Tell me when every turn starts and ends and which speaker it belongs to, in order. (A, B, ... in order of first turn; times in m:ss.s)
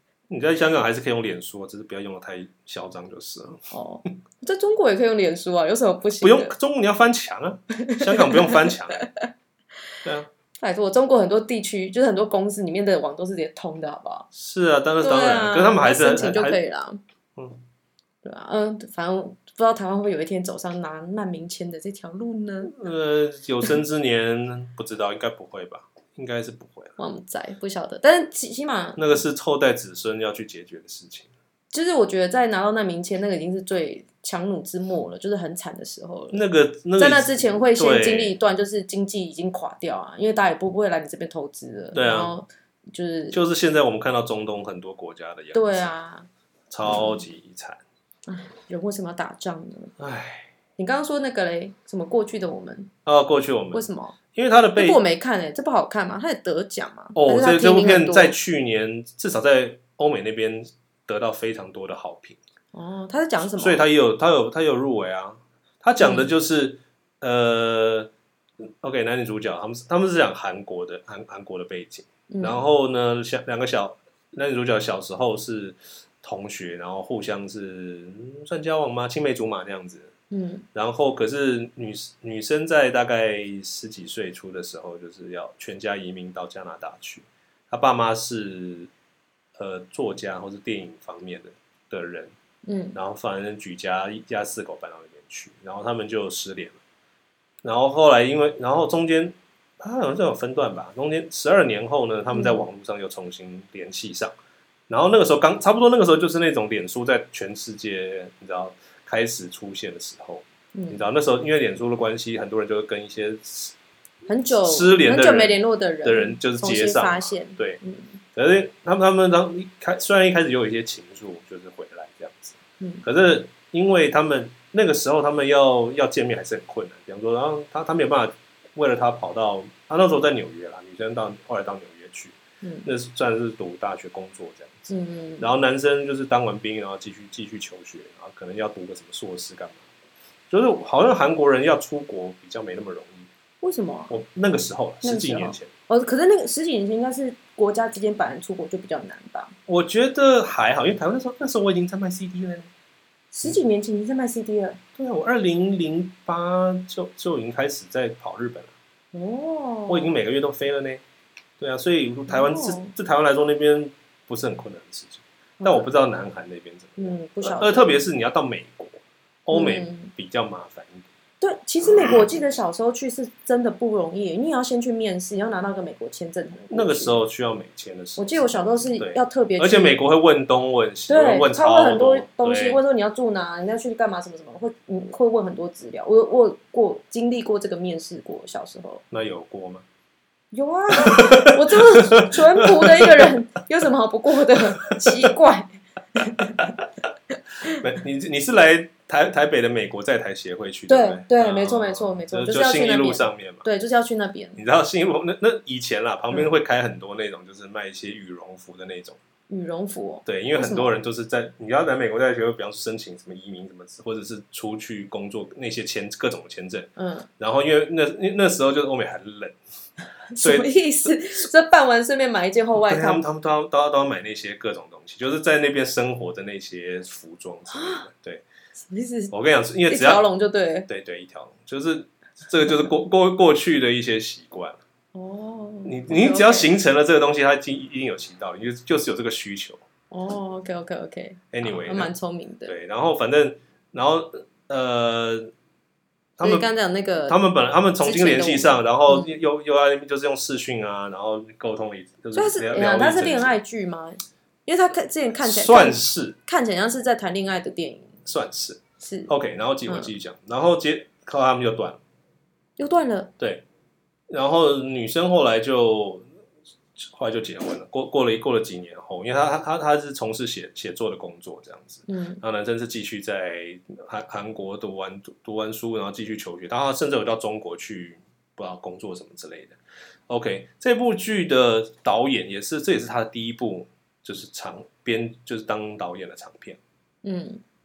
0:00.3-0:03.6 A
0:03.7-0:06.5 B
0:06.2-0:09.1 A
0:07.8-0:09.0 B
0:10.6-0:14.3 B
0:14.3-0:16.6 A
0:15.0-0:17.0 B
0:17.4-0:17.6 A
0:18.2-0:22.8 B
0:22.6-0:26.9 A
0:27.0-0:29.2 B
0:29.0-0:31.3 A
0:31.7-0:36.4 B
0:36.3-0:38.4 A
0:37.0-0:43.4 B
0:41.9-0:42.3 A
0:43.3-0:45.9 A
0:45.5-0:46.3 B
0:46.7-0:47.8 A
0:46.8-0:47.2 B
0:48.3-0:49.9 B
0:50.0-0:50.5 A
0:50.8-0:52.9 B
0:53.0-0:55.0 A
0:53.7-0:54.2 B
0:54.8-0:58.3 B
0:57.1-1:02.4 A
1:02.7-1:03.8 B
1:03.4-1:08.1 A
1:06.0-1:06.3 B
1:08.6-1:20.1 A
1:12.3-1:12.6 B
1:20.3-1:20.6 B
1:20.7-1:28.9 A
1:29.6-1:32.3 A
1:32.6-1:33.0 B
1:32.9-1:36.8 A
1:37.6-1:44.3 A
1:42.3-1:42.6 B
1:44.9-1:53.7 A
1:50.7-1:51.0 B
1:54.2-1:58.2 B
1:54.5-1:57.8 A
1:58.3-2:19.8 A
2:02.8-2:03.0 B
2:12.6-2:12.9 B
2:14.9-2:15.5 B
2:20.5-2:23.3 A
2:23.6-2:24.2 B
2:24.1-2:25.7 A
2:25.0-2:29.6 B
2:29.7-2:32.7 A
2:33.3-2:34.8 B
2:35.0-2:38.7 A
2:39.1-2:40.1 B
2:39.9-2:41.0 A
2:41.6-2:51.0 A
2:42.3-2:42.9 B
2:45.6-2:45.9 B
2:47.0-2:48.0 B
2:49.5-2:50.1 B
2:51.4-2:57.2 B
2:56.7-3:02.8 A
2:58.2-3:00.0 B
3:01.1-3:09.0 B
3:09.1-3:09.8 A
3:10.5-3:16.7 B
3:11.0-3:13.3 A
3:14.9-3:15.2 A
3:17.6-3:23.6 A
3:20.9-3:24.6 B
3:24.6-3:29.2 A
3:29.5-3:31.0 B
3:30.2-3:39.6 A
3:37.0-3:37.3 B
3:40.3-3:43.2 B
3:40.4-3:41.5 A
3:42.8-3:48.4 A
3:47.7-3:48.0 B
3:48.9-3:49.3 B
3:49.3-3:50.2 A
3:49.9-3:50.9 B
3:50.9-3:54.8 A
3:55.1-3:56.7 B
3:55.8-3:59.8 A
4:00.1-4:02.7 B
4:01.5-4:02.1 A
4:02.7-4:05.5 A
4:06.4-4:06.7 A
4:06.4-4:07.4 B
4:07.3-4:13.6 A
4:08.0-4:09.3 B
4:12.3-4:18.1 B
4:15.4-4:16.4 A
4:18.2-4:22.0 A
4:19.0-4:19.3 B
4:19.8-4:20.1 B
4:22.8-4:23.3 B
4:23.4-4:23.6 A
4:24.3-4:26.2 A
4:27.0-4:39.8 A
4:32.1-4:32.4 B
4:40.3-4:46.8 A
4:47.2-4:47.6 B